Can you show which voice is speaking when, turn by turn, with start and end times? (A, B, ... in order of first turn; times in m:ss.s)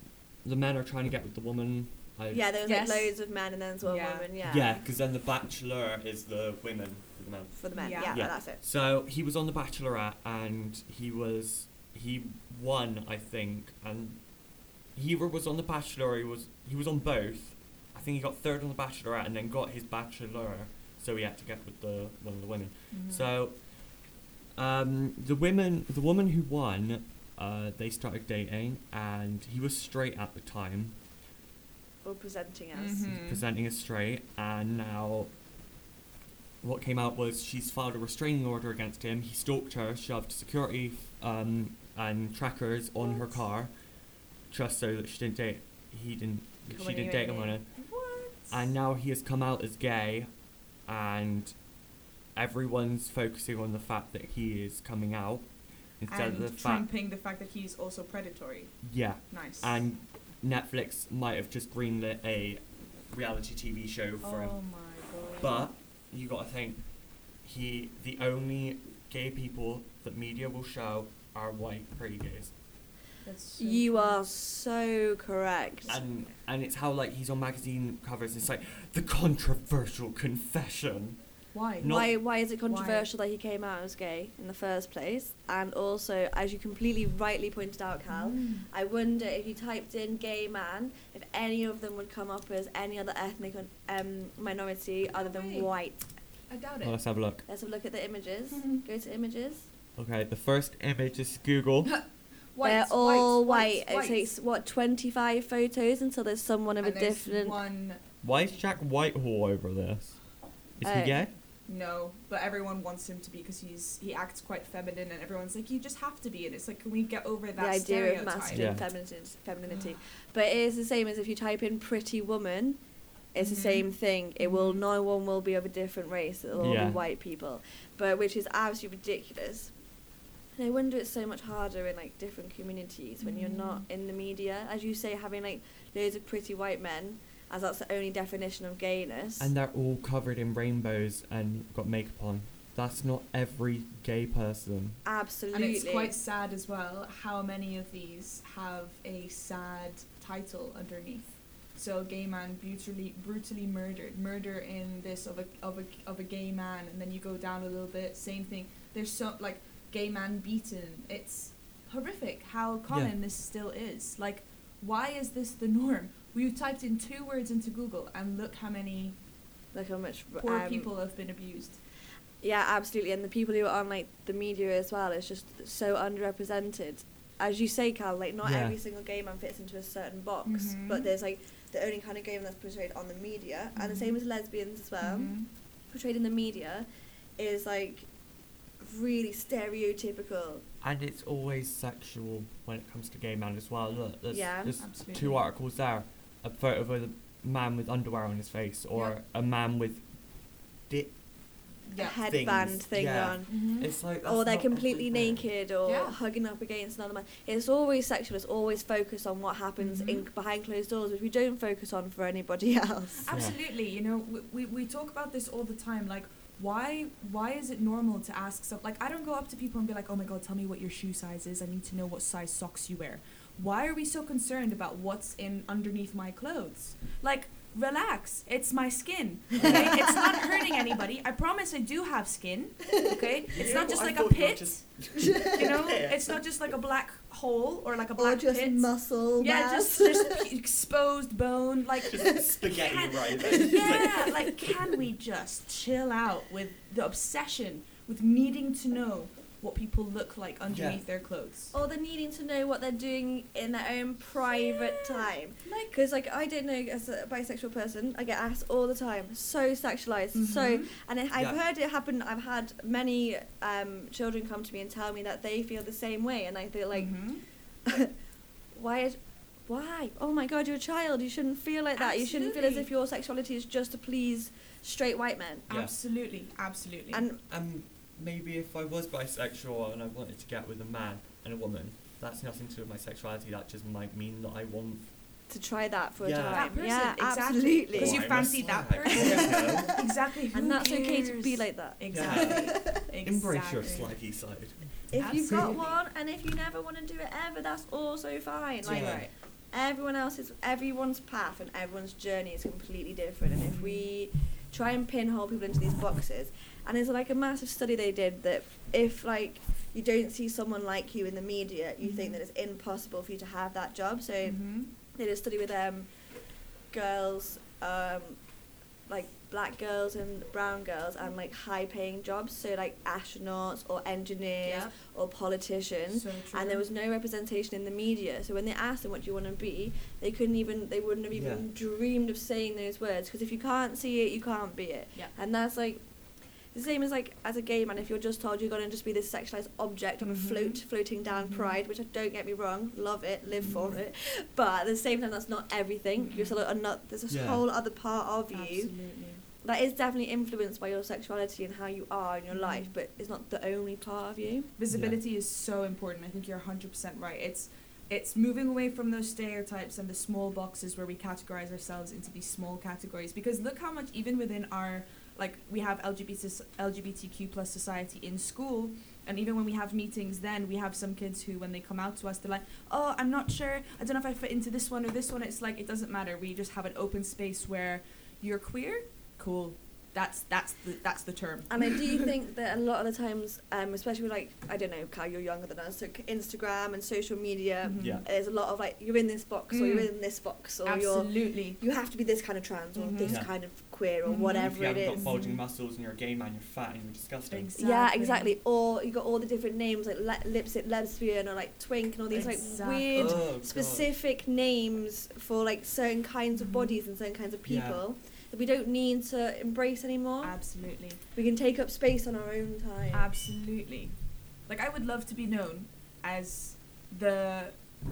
0:00.4-0:02.5 A
0:02.3-0:04.8 B
0:02.6-0:03.2 C
0:03.8-0:04.3 C
0:04.4-0:14.2 A
0:07.6-0:08.6 B
0:07.7-0:08.2 C
0:15.0-0:23.6 A
0:22.9-0:23.3 C
0:24.6-0:31.0 A
0:32.0-0:33.0 B
0:32.7-0:33.4 C
0:33.1-0:35.3 A
0:36.6-0:43.7 A
0:43.0-0:43.4 C
0:44.5-0:47.7 A
0:46.7-0:48.6 C
0:48.5-0:50.3 A
0:50.9-0:51.6 A
0:52.4-0:55.5 A
0:56.0-0:56.9 A
0:56.1-0:58.8 C
0:58.8-1:04.6 A
0:59.3-0:59.8 C
1:04.2-1:05.7 C
1:05.4-1:06.8 A
1:07.4-1:12.5 A
1:13.2-1:14.2 C
1:13.6-1:15.9 B
1:15.9-1:21.2 A
1:21.5-1:22.1 C
1:21.8-1:22.1 A
1:21.8-1:36.1 B
1:22.6-1:23.1 C
1:28.1-1:28.7 C
1:35.1-1:35.7 C
1:36.5-1:37.0 C
1:36.8-1:37.4 A
1:37.5-1:39.7 B
1:38.5-1:38.8 C
1:40.0-1:41.9 A
1:42.6-1:44.3 C
1:42.6-1:47.6 B
1:46.8-1:48.0 C
1:48.2-1:50.2 A
1:50.8-1:51.3 A
1:50.8-1:51.2 B
1:51.7-1:58.7 C
1:57.6-2:02.8 B
1:58.5-1:58.9 A
2:03.3-2:09.7 B
2:03.4-2:04.8 C
2:06.6-2:07.0 A
2:10.6-2:19.5 B
2:13.2-2:13.9 C
2:19.4-2:25.0 A
2:25.0-2:26.2 B
2:25.5-2:49.2 C
2:42.9-2:43.1 A
2:49.7-2:50.9 B
2:50.4-2:51.8 C
2:52.4-3:05.3 B
2:58.4-2:58.8 A
3:00.4-3:01.1 C
3:03.8-3:04.2 C
3:05.0-3:05.5 C
3:05.9-3:06.9 B
3:07.4-3:08.1 B
3:08.8-3:10.6 B
3:10.8-3:20.0 A
3:14.3-3:14.8 B
3:14.8-3:15.5 C
3:20.9-3:21.2 A
3:21.9-3:22.2 C
3:22.0-3:23.6 B
3:22.2-3:25.5 A
3:23.5-3:23.9 C
3:24.2-3:33.3 B
3:25.8-3:26.2 C
3:29.8-3:30.3 C
3:33.2-3:54.8 C
3:33.3-3:33.6 A
3:49.6-3:50.1 A
3:49.7-3:50.1 B
3:53.5-3:56.4 A
3:55.2-3:55.6 B
3:55.5-4:11.7 C
3:58.2-4:00.4 B
4:02.1-4:04.4 A
4:03.6-4:04.0 B
4:10.7-4:11.0 A
4:11.7-4:27.1 B
4:14.5-4:15.9 C
4:20.3-4:20.9 C
4:21.4-4:21.6 A
4:26.9-4:27.4 C
4:27.9-4:28.1 B
4:28.7-4:35.7 B
4:32.0-4:32.9 C
4:35.7-4:37.2 C
4:37.1-4:37.4 B
4:37.5-4:45.1 A
4:45.5-4:48.4 B
4:46.2-4:46.8 A
4:46.5-4:54.1 C
4:47.9-4:49.9 A
4:49.1-4:50.0 B
4:50.5-4:52.7 B
4:52.1-4:54.8 A
4:55.1-5:14.6 B
4:55.2-4:56.0 C
4:58.8-4:59.3 A
4:58.8-4:59.3 C
5:03.6-5:04.1 C
5:12.0-5:12.4 C
5:14.4-5:14.9 C
5:15.1-5:16.1 B
5:16.9-5:18.4 B
5:19.1-5:36.0 B
5:24.6-5:25.0 C
5:26.1-5:26.8 C
5:31.3-5:31.7 A
5:36.7-5:48.9 B
5:40.2-5:41.8 C
5:43.6-5:44.0 C
5:46.2-5:46.6 C
5:47.3-5:47.6 A
5:48.5-5:49.4 C
5:49.6-5:54.7 B
5:52.5-5:52.9 C
5:54.8-6:22.3 C
5:54.9-5:55.2 A
6:21.7-6:35.3 B
6:27.8-6:28.2 C
6:28.0-6:28.2 A
6:29.7-6:30.1 C
6:30.8-6:31.8 C
6:33.0-6:33.4 C
6:33.2-6:33.5 A
6:34.2-6:35.6 C
6:34.4-6:37.7 A
6:37.5-6:38.6 C
6:37.8-6:50.6 B
6:42.3-6:43.4 C
6:43.1-6:44.1 A
6:46.6-6:47.0 C
6:47.7-6:48.0 A
6:50.4-6:51.2 C
6:51.4-6:53.3 B
6:53.1-6:54.2 C
6:54.7-6:57.8 C